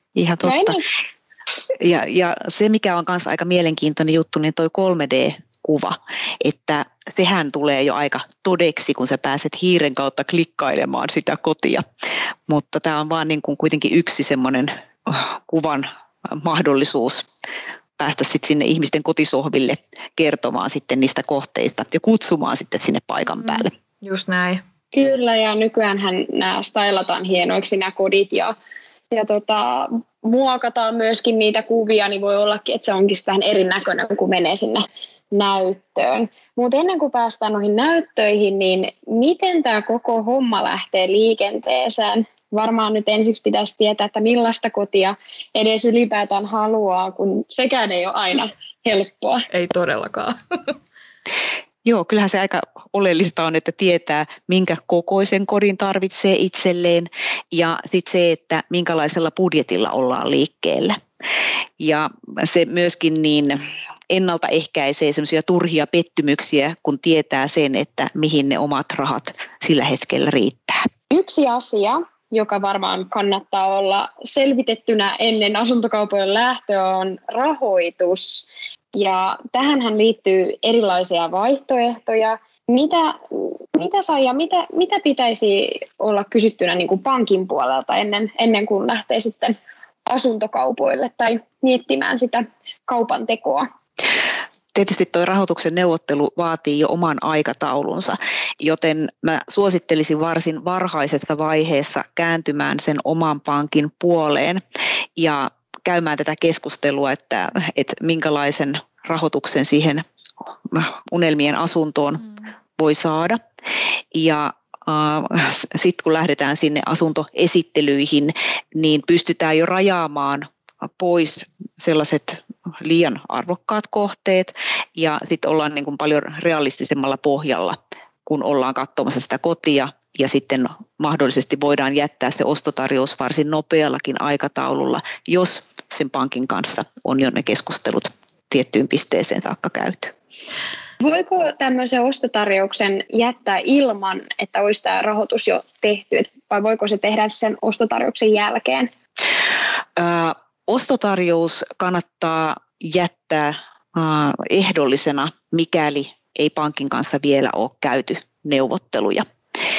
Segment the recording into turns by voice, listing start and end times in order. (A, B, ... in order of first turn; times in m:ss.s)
0:00.2-0:00.8 A
0:00.4-0:00.8 B
0:01.8-0:11.8 A
0:12.5-0:17.3 A
0:18.0-0:23.7 A
0:23.4-0:24.6 C
0:24.9-0:28.5 B
0:29.1-0:49.4 B
0:49.5-0:50.7 C
0:51.8-1:01.0 A
1:01.8-1:03.6 A
1:04.1-1:10.9 A
1:11.1-1:29.6 B
1:30.1-1:33.6 B
1:34.7-1:44.6 A
1:45.2-1:52.2 A
1:52.8-1:53.4 A
1:54.1-2:20.1 A
2:21.0-2:28.9 B
2:30.0-2:39.2 A